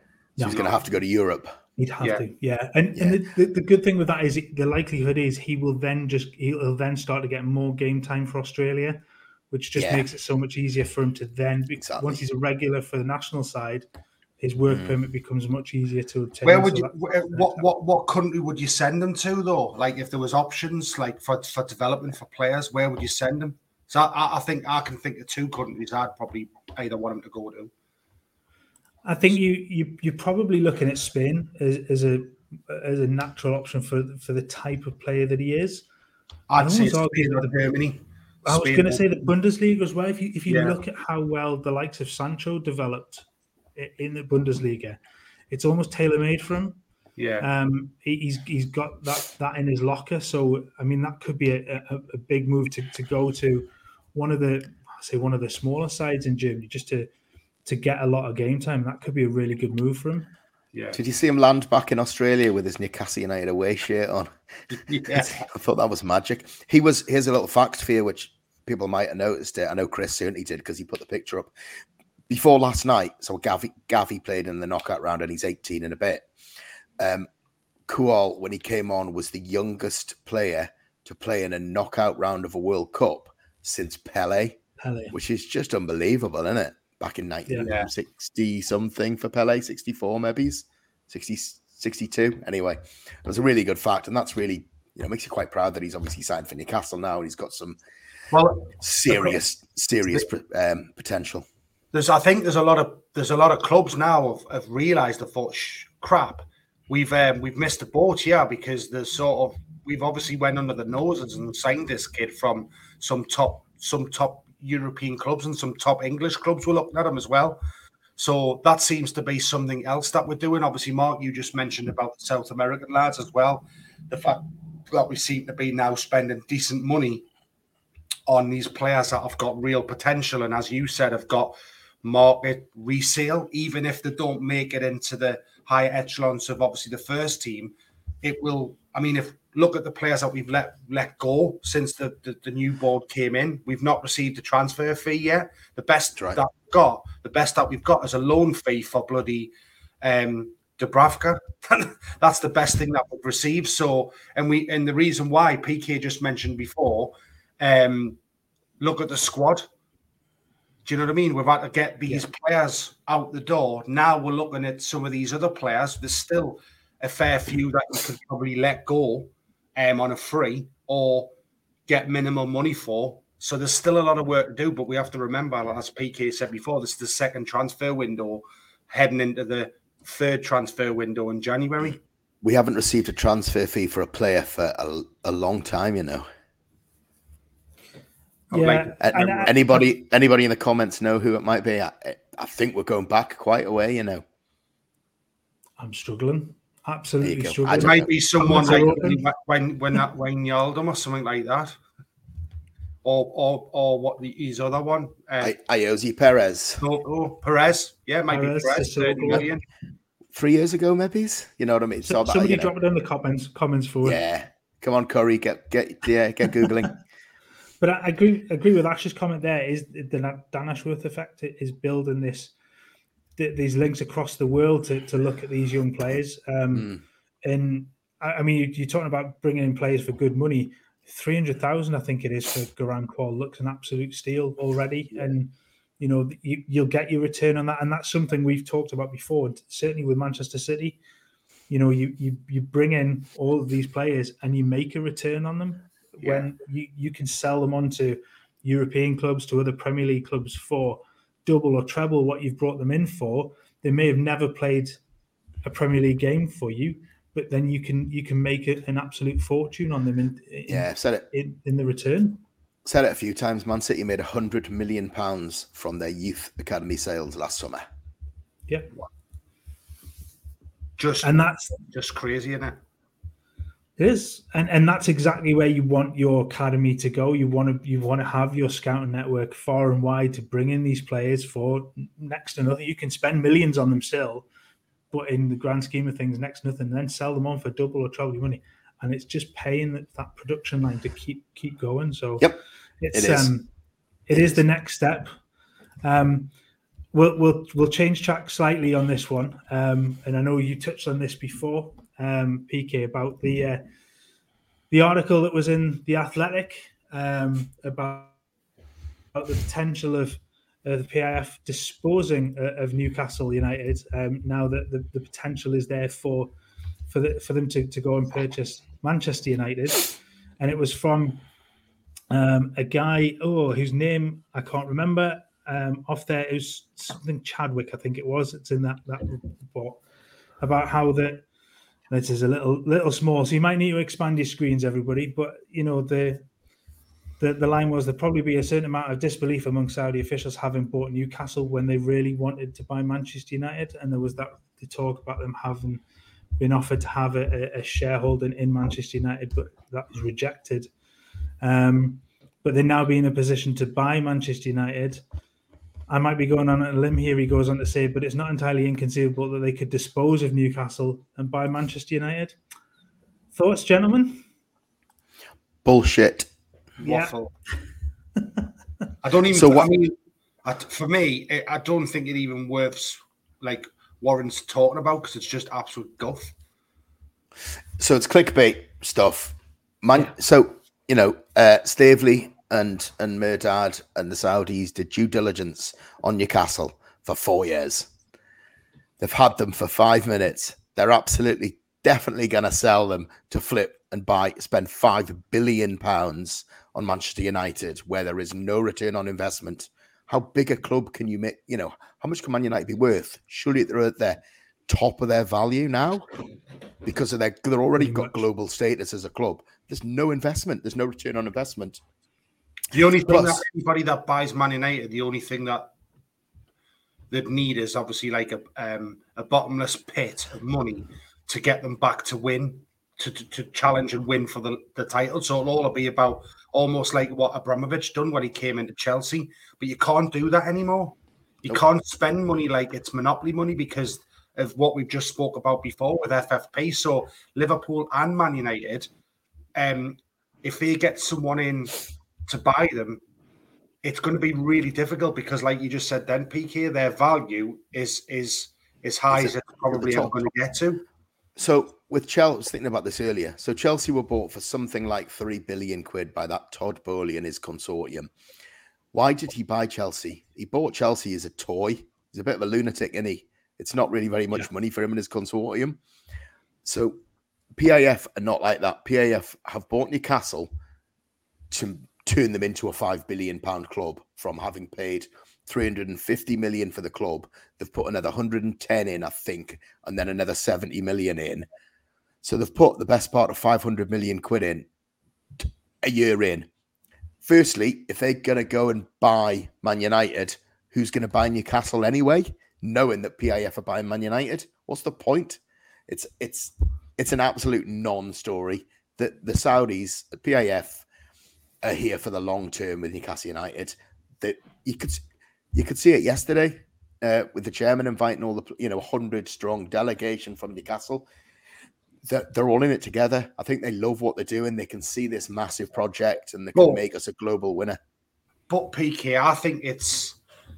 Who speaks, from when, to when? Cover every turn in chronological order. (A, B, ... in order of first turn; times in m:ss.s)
0:00.4-0:01.6 A
0:00.4-0:00.8 B
0:01.8-0:13.9 C
0:09.8-0:10.1 A
0:11.8-0:12.2 A
0:14.4-0:17.6 C
0:14.7-0:15.0 A
0:16.4-0:27.7 B
0:29.0-0:35.8 C
0:36.5-0:39.3 B
0:36.6-0:37.6 C
0:38.4-0:45.0 C
0:40.5-0:40.8 B
0:45.5-0:46.8 C
0:47.2-0:47.4 B
0:47.4-0:57.1 C
0:57.6-1:00.3 C
1:00.7-1:01.0 B
1:00.9-1:04.3 A
1:04.7-1:05.4 B
1:05.1-1:11.5 A
1:12.3-1:16.3 A
1:17.0-1:17.3 A
1:17.9-1:24.6 A
1:24.8-1:25.1 C
1:25.1-1:37.8 A
1:27.6-1:27.9 B
1:38.3-1:39.4 B
1:38.8-1:41.5 A
1:41.9-1:57.6 B
1:58.2-2:07.2 B
2:08.3-2:38.2 B
2:38.8-2:39.7 B
2:40.8-2:51.3 B
2:51.9-3:02.0 B
3:02.4-3:06.2 A
3:08.5-3:09.5 B
3:08.5-3:09.8 C
3:09.0-3:14.2 A
3:15.8-3:19.2 C
3:17.2-3:18.1 A
3:17.8-3:21.8 B
3:23.0-3:25.5 B
3:25.4-3:26.8 A
3:26.8-3:29.6 B
3:28.3-3:29.5 C
3:30.3-3:32.7 A
3:32.0-3:34.2 C
3:34.0-3:36.9 A
3:37.8-3:42.5 C
3:43.4-4:01.0 C
4:01.7-4:15.0 C
4:06.2-4:06.5 B
4:15.6-4:22.4 C
4:20.7-4:21.3 A
4:22.8-4:27.8 A
4:31.0-4:32.8 B
4:31.2-4:31.8 C
4:34.0-4:44.4 C
4:45.1-4:53.7 C
4:53.1-4:53.6 A
4:54.3-4:55.3 C
4:54.3-4:54.6 A
4:56.0-4:56.5 C
4:57.1-5:03.8 C
5:04.9-5:08.4 C
5:09.3-5:16.5 C
5:17.1-5:21.4 C
5:22.3-5:30.0 C
5:30.6-5:31.4 C
5:32.1-5:36.4 C
5:37.4-5:46.0 C
5:46.6-5:50.9 C
5:51.6-5:55.2 C
5:56.1-6:02.6 C
6:03.5-6:04.4 C
6:05.8-6:06.5 A
6:07.0-6:07.5 B
6:07.0-6:07.3 C
6:09.2-6:16.5 B
6:09.5-6:09.9 A
6:18.0-6:28.1 A
6:29.2-6:46.2 A
6:47.0-6:52.0 A
6:48.0-6:48.4 C
6:52.9-6:55.9 B
6:53.3-6:53.6 A
6:57.3-7:19.1 B
7:19.8-7:22.0 B
7:22.5-7:23.2 B
7:24.0-7:31.0 B
7:29.3-7:30.4 A
7:31.6-7:38.3 A
7:39.1-7:46.0 A
7:46.8-7:47.2 A
7:47.8-7:50.7 A
7:51.7-8:01.6 A
8:02.4-8:04.8 A
8:05.6-8:06.7 A
8:07.4-8:21.0 A
8:21.8-8:25.2 A
8:25.7-8:31.3 A
8:32.2-8:38.0 A
8:36.7-8:37.0 B
8:38.7-8:40.4 B